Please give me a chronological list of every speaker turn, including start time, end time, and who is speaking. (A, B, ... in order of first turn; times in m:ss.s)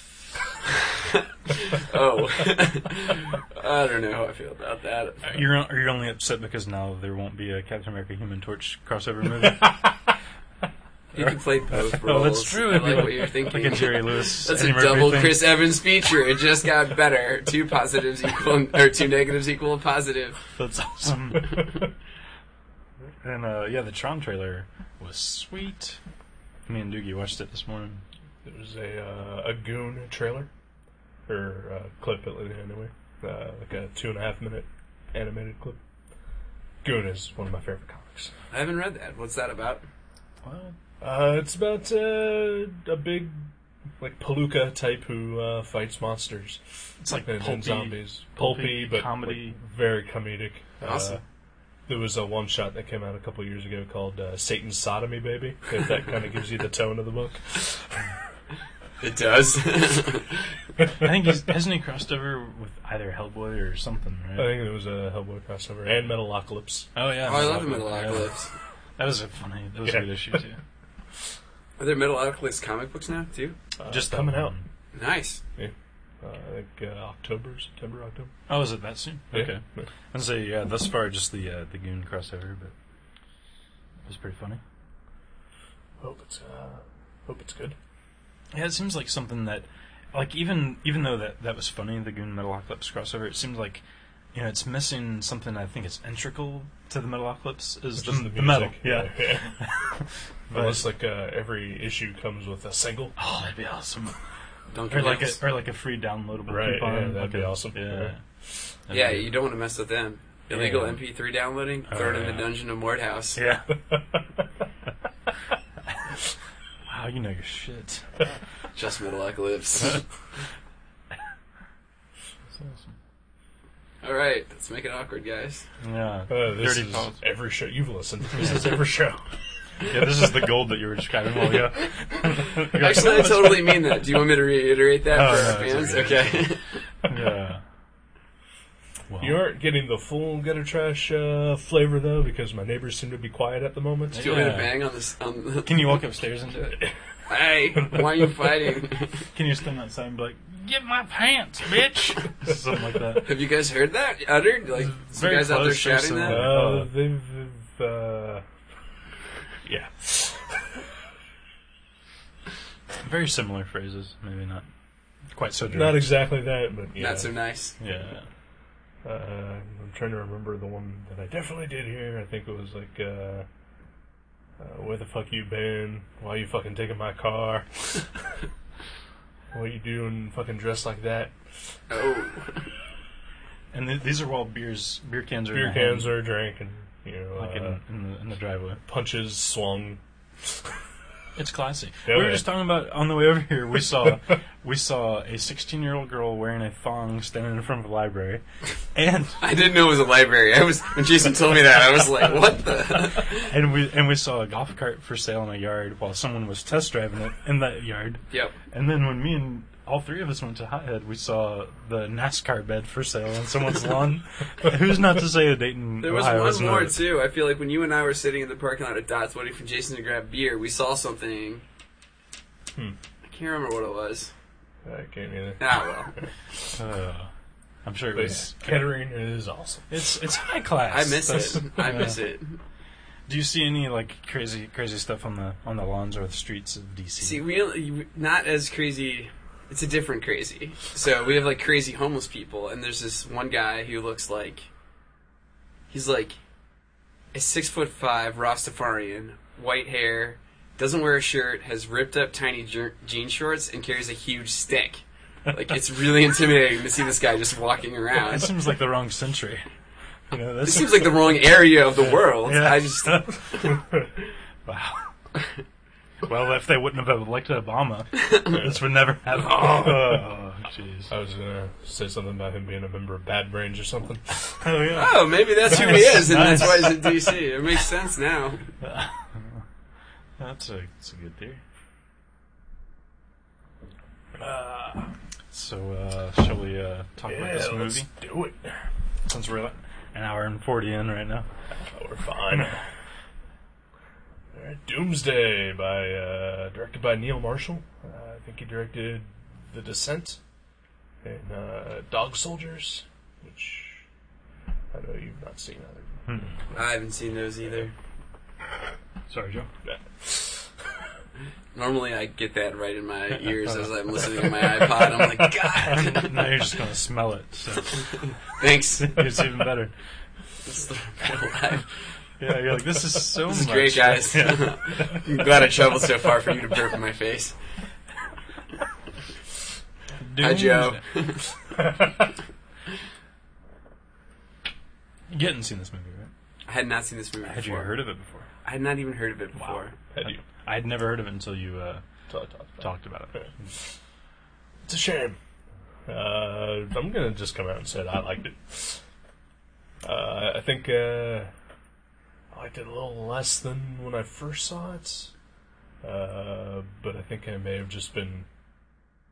0:01.1-0:05.3 A
0:05.2-0:09.9 B
0:11.1-0:20.4 A
0:11.2-0:15.5 B
0:20.6-0:21.8 B
0:23.2-0:26.0 B
0:26.7-0:28.0 B
0:28.4-0:30.5 C
0:31.3-0:35.8 C
0:36.8-0:38.3 C
0:38.5-0:39.8 A
0:40.4-0:40.7 B
0:41.0-0:43.4 C
0:44.0-0:46.6 C
0:47.0-0:49.6 B
0:47.1-0:51.2 C
0:50.8-0:51.2 A
0:51.9-0:57.6 C
0:59.0-1:00.5 A
1:01.0-1:04.6 B
1:04.4-1:06.9 C
1:06.9-1:08.3 B
1:07.2-1:08.5 A
1:09.0-1:10.6 B
1:11.8-1:13.6 A
1:13.8-1:14.5 C
1:13.9-1:14.6 B
1:14.9-1:15.4 A
1:15.6-1:18.3 C
1:18.5-1:22.7 B
1:19.3-1:19.8 C
1:24.0-1:24.6 B
1:26.0-1:27.8 C
1:28.5-1:33.8 B
1:34.3-1:40.8 B
1:38.0-1:39.5 C
1:40.5-1:43.1 C
1:43.2-1:44.2 B
1:44.7-1:45.4 A
1:44.9-1:48.2 B
1:46.5-1:48.1 C
1:48.9-1:49.3 B
1:48.9-1:53.4 A
1:50.5-1:51.0 B
1:51.9-1:52.5 B
1:53.3-1:53.8 B
1:56.9-1:58.0 B
1:58.8-2:00.0 A
2:02.5-2:02.9 B
2:04.0-2:05.6 A
2:05.8-2:07.2 B
2:06.3-2:09.3 C
2:08.4-2:08.8 B
2:09.8-2:13.9 B
2:12.7-2:16.8 A
2:15.1-2:16.4 B
2:17.0-2:17.6 B
2:19.1-2:19.4 B
2:19.2-2:24.5 C
2:24.1-2:24.8 B
2:24.2-2:26.0 A
2:25.6-2:26.8 B
2:27.3-2:29.3 A
2:29.3-2:33.3 B
2:33.2-2:36.5 A
2:34.8-2:36.9 B
2:36.2-2:38.4 C
2:39.6-2:40.6 C
2:43.0-2:44.6 B
2:45.3-2:46.1 B
2:45.7-2:47.3 C
2:47.0-2:47.7 A
2:47.8-2:48.2 B
2:49.0-2:53.4 C
2:54.6-2:58.1 C
2:59.5-3:01.3 C
3:01.9-3:02.7 A
3:03.7-3:06.1 B
3:05.5-3:07.8 C
3:07.4-3:08.8 B
3:08.9-3:10.0 C
3:11.4-3:18.4 B
3:12.1-3:12.4 C
3:18.9-3:19.4 B
3:19.4-3:23.5 A
3:23.3-3:37.0 B
3:36.0-3:41.6 A
3:43.2-3:44.3 A
3:44.8-3:45.6 C
3:45.6-3:46.1 A
3:46.7-3:47.3 B
3:47.8-3:48.8 B
3:48.1-3:49.9 C
3:49.9-3:52.2 B
3:50.9-3:52.6 A
3:53.3-3:57.4 B
3:57.2-4:04.7 A
4:05.9-4:06.4 A
4:07.3-4:18.5 A
4:18.3-4:19.6 B
4:20.3-4:21.4 B
4:20.6-4:23.7 A
4:22.0-4:23.5 B
4:24.6-4:25.1 B
4:26.2-4:31.1 B
4:29.5-4:30.1 C
4:31.1-4:34.5 C
4:34.6-4:37.3 B
4:34.9-4:38.7 A
4:38.8-4:39.6 B
4:40.4-4:41.6 B
4:44.4-4:45.1 C
4:45.5-4:48.1 B
4:47.3-4:48.9 C
4:49.2-4:51.5 B
4:51.9-4:52.8 C
4:54.5-5:00.4 C
5:01.2-5:04.0 C
5:04.9-5:06.4 C
5:06.3-5:06.6 B
5:06.7-5:07.9 A
5:09.3-5:09.7 B
5:09.9-5:10.5 C
5:11.7-5:16.3 A
5:15.7-5:18.1 B
5:18.6-5:19.2 A
5:19.0-5:19.9 B
5:20.6-5:21.9 A
5:22.4-5:25.2 B
5:23.5-5:27.6 A
5:30.2-5:31.0 B
5:30.4-5:31.5 A
5:35.3-5:36.3 B
5:36.7-5:37.9 A
5:37.4-5:38.5 B
5:38.6-5:39.9 A
5:39.6-5:42.0 B
5:40.1-5:40.4 C
5:42.3-5:43.5 C
5:42.8-5:43.5 B
5:44.9-5:45.4 C
5:46.1-5:49.0 C
5:50.0-5:51.5 C
5:52.5-5:55.3 C
5:56.0-5:58.4 C